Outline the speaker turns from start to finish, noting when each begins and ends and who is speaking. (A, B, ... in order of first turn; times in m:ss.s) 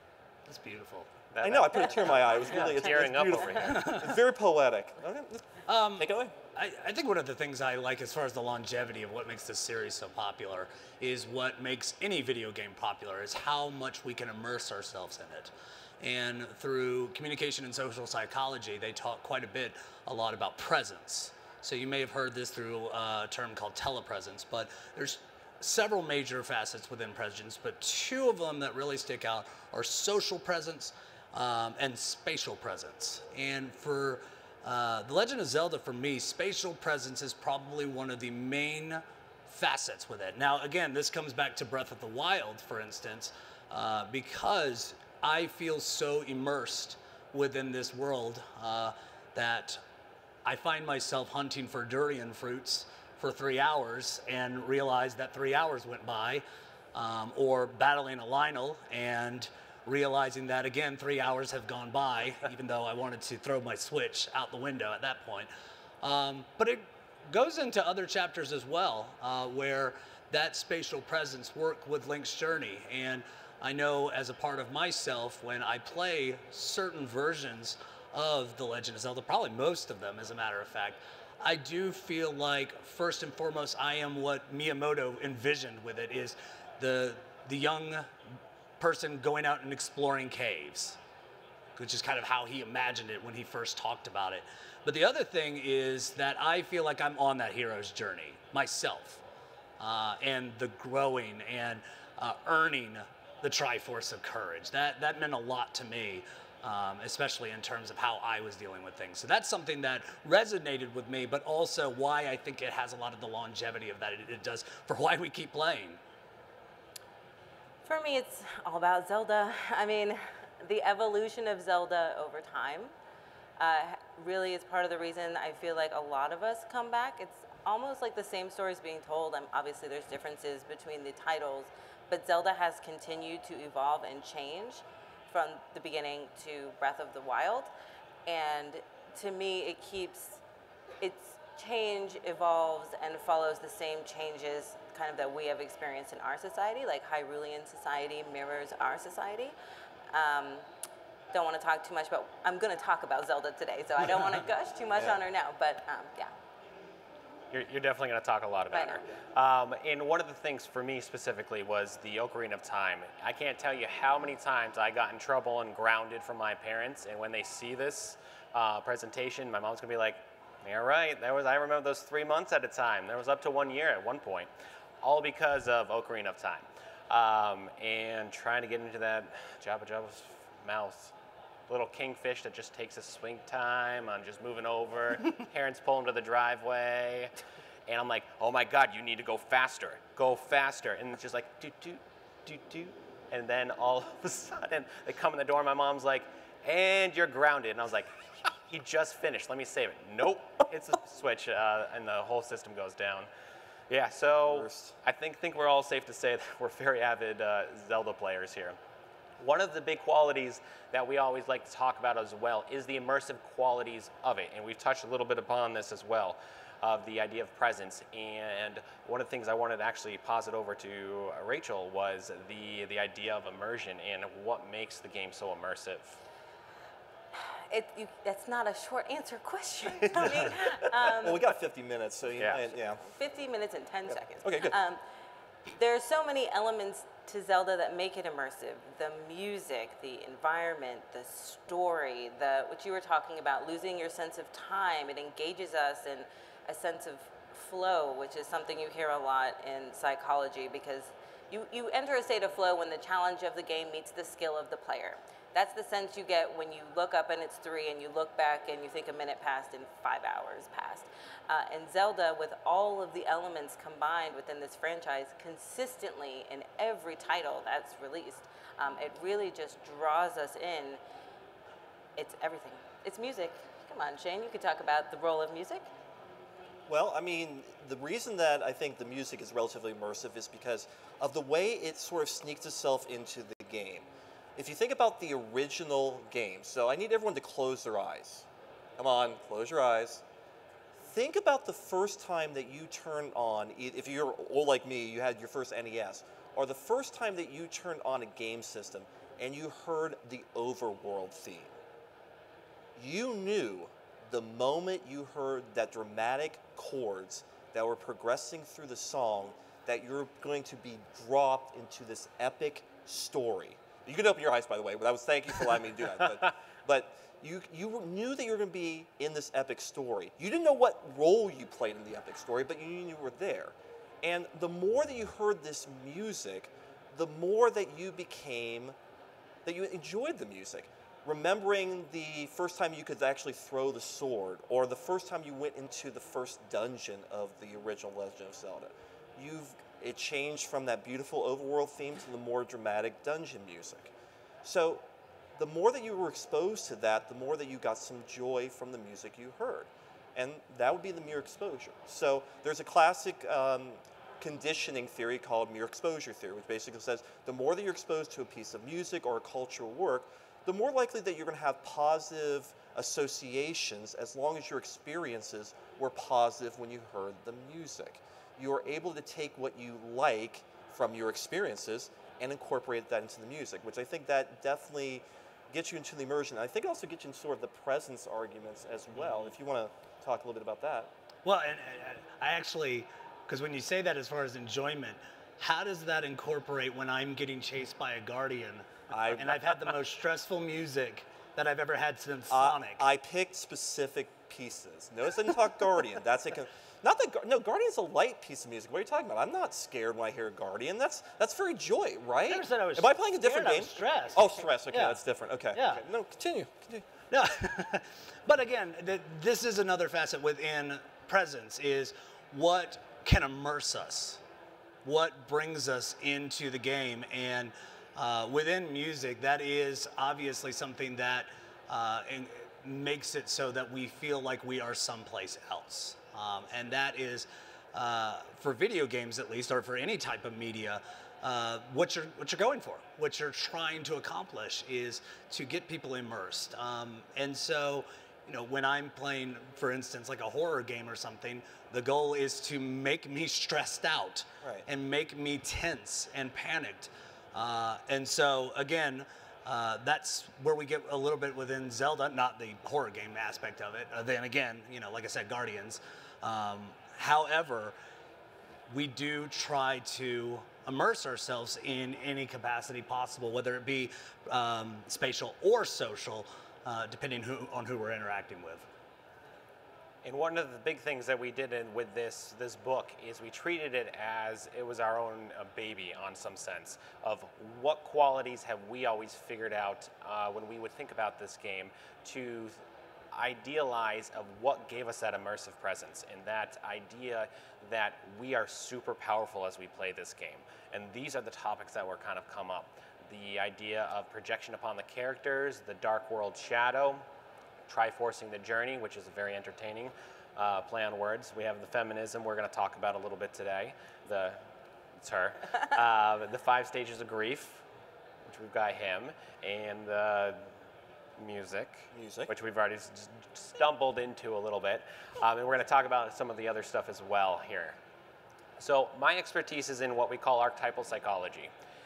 0:00.5-0:01.1 A
0:01.3-0:03.9 B
0:01.4-0:06.4 C
0:03.6-0:04.2 A
0:05.7-0:49.8 A
0:50.4-1:05.5 A
1:06.0-1:28.1 A
1:28.8-1:31.0 A
1:31.8-1:39.2 A
1:39.8-1:56.0 A
1:57.8-2:02.9 D
2:03.6-2:17.7 D
2:18.3-2:20.4 D
2:21.0-2:29.5 D
2:30.1-2:30.6 D
2:31.3-2:36.3 D
2:37.5-2:54.5 B
2:38.7-2:39.0 D
2:55.0-3:01.1 B
3:01.7-3:07.3 B
3:07.9-3:23.3 B
3:23.9-3:28.8 B
3:24.4-3:24.9 C
3:29.4-3:46.2 B
3:47.4-3:51.5 D
3:50.2-3:53.0 C
3:52.4-3:52.7 B
3:53.0-3:55.0 D
3:54.1-3:54.8 C
3:55.7-4:31.0 D
4:32.2-4:35.9 D
4:36.9-4:50.2 C
4:51.0-5:01.8 C
5:03.0-5:29.0 C
5:29.6-5:44.1 C
5:44.6-5:45.1 C
5:45.6-6:21.1 C
6:21.4-6:33.0 A
6:29.1-6:29.8 C
6:32.5-6:47.0 C
6:42.5-6:45.2 A
6:45.7-6:46.0 A
6:47.3-6:54.4 A
6:55.0-7:38.0 A
7:38.9-7:48.9 A
7:50.2-8:02.8 B
8:03.3-8:17.2 B
8:17.9-8:24.6 B
8:25.2-8:27.8 B
8:28.5-8:30.7 B
8:31.4-8:38.0 B
8:32.1-8:32.5 C
8:38.8-8:41.7 B